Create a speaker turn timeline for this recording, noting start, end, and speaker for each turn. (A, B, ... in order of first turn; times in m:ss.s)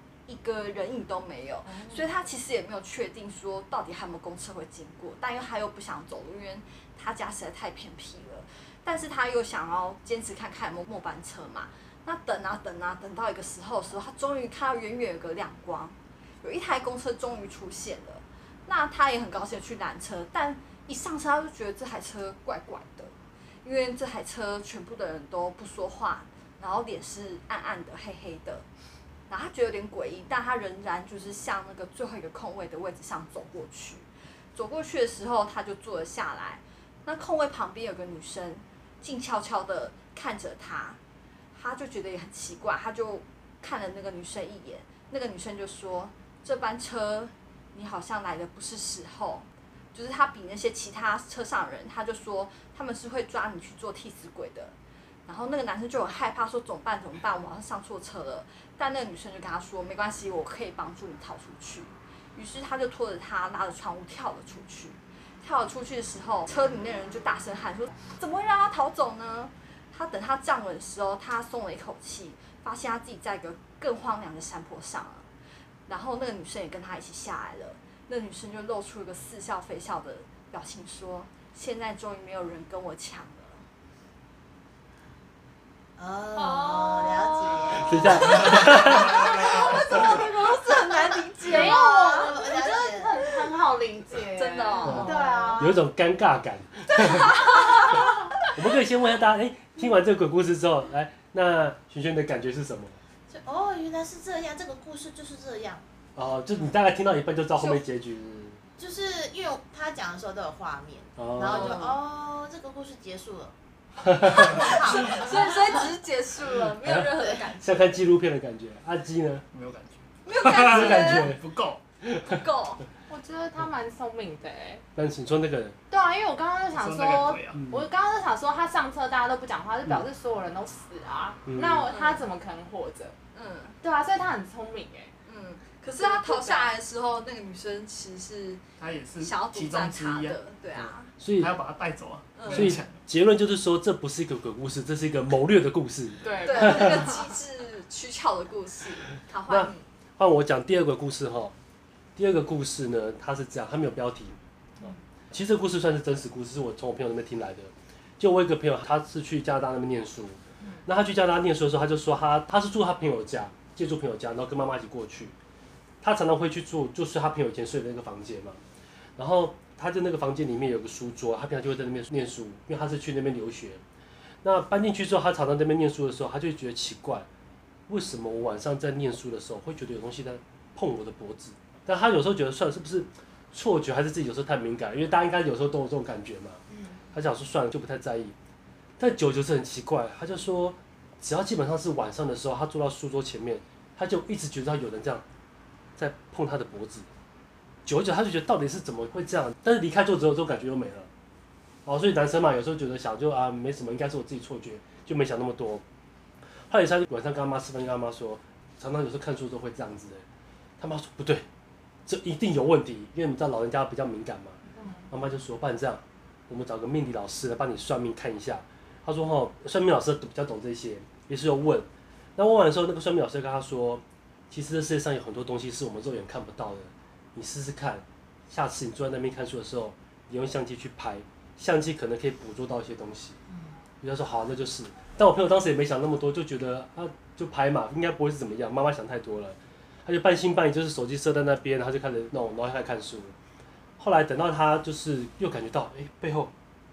0:00.3-0:23.1 A
0:01.7-0:02.0 B
0:23.6-0:28.6 A
0:29.3-0:41.0 A
0:41.5-0:54.8 A
0:55.3-1:15.3 A
1:15.9-1:23.6 A
1:26.0-1:33.1 C
1:26.4-1:28.6 B
1:27.8-1:29.2 D
1:28.0-1:32.4 A
1:31.4-1:35.6 B
1:34.4-1:35.2 A
1:34.8-1:37.8 D
1:34.9-1:35.8 C
1:36.9-1:38.1 A
1:38.5-1:43.0 D
1:43.3-1:45.8 C
1:46.2-1:48.6 D
1:48.8-1:53.5 C
1:51.2-1:51.8 D
1:51.4-1:52.0 A
1:54.1-1:54.6 D
1:54.2-1:55.9 C
1:54.4-1:57.9 A
1:57.6-1:59.4 D
1:59.5-2:01.8 E
2:00.2-2:01.4 A
2:00.4-2:01.4 D
2:02.0-2:02.4 D
2:02.3-2:02.8 A
2:03.1-2:04.8 B
2:05.0-2:05.8 D
2:05.9-2:13.2 B
2:06.7-2:07.6 E
2:07.6-2:07.8 D
2:11.5-2:11.9 D
2:11.9-2:12.2 A
2:13.3-2:13.8 A
2:13.8-2:15.1 B
2:15.3-2:18.6 A
2:15.9-2:16.7 B
2:18.8-2:20.4 E
2:19.2-2:21.1 A
2:20.8-2:21.5 D
2:21.4-2:23.0 E
2:22.4-2:22.8 A
2:22.5-2:27.0 D
2:26.2-2:27.3 B
2:26.4-2:29.8 A
2:29.5-2:31.5 D
2:32.2-2:34.4 D
2:35.3-2:45.4 D
2:46.0-2:48.6 D
2:49.2-2:53.8 D
2:54.4-2:57.3 D
2:57.9-3:06.6 D
3:07.1-3:08.3 D
3:09.0-3:15.2 D
3:16.0-3:17.1 D
3:17.8-3:21.1 D
3:21.8-3:25.8 D
3:26.7-3:30.2 D
3:30.8-3:31.5 D
3:32.1-3:53.4 D
3:34.8-3:35.1 B
3:54.0-4:03.3 D
4:04.0-4:06.5 D